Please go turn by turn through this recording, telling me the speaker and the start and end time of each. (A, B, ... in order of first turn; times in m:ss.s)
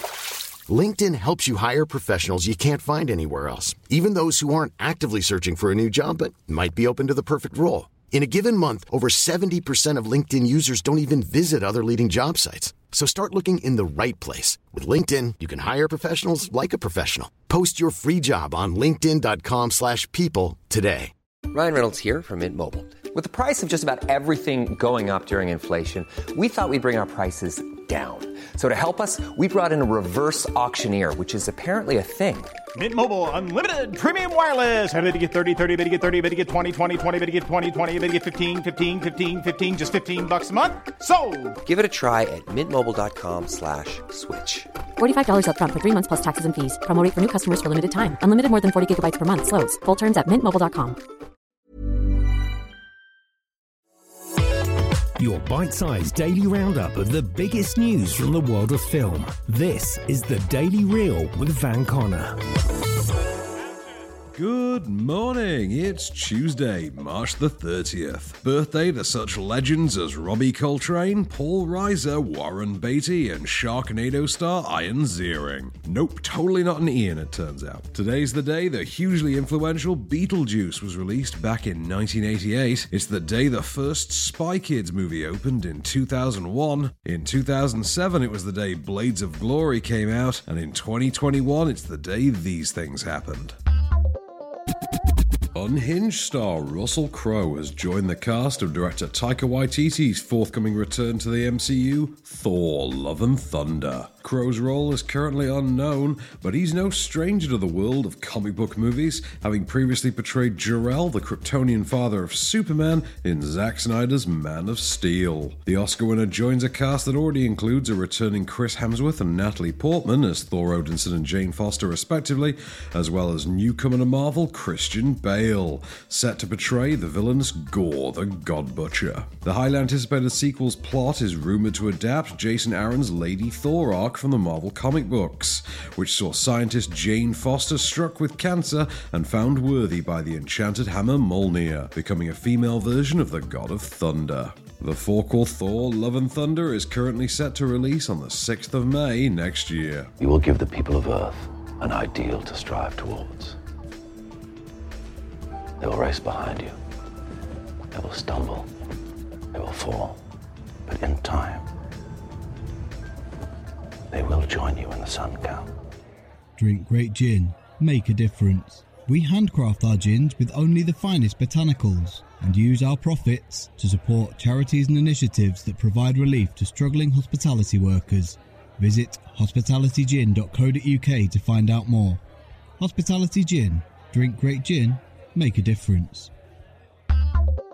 0:00.7-0:21.1 A
0:21.5-0:32.5 B
0:32.7-0:41.6 C
0:41.6-0:44.7 B
0:45.0-0:51.0 D
0:55.2-1:02.4 E
1:04.3-1:33.6 F
1:35.5-2:30.1 F
2:30.2-2:33.6 G
2:35.8-2:36.8 G
2:37.9-2:38.7 G
2:39.5-2:40.2 G
2:40.9-2:41.7 G
2:44.1-2:45.7 G
2:46.6-3:02.2 H
3:02.8-3:06.3 H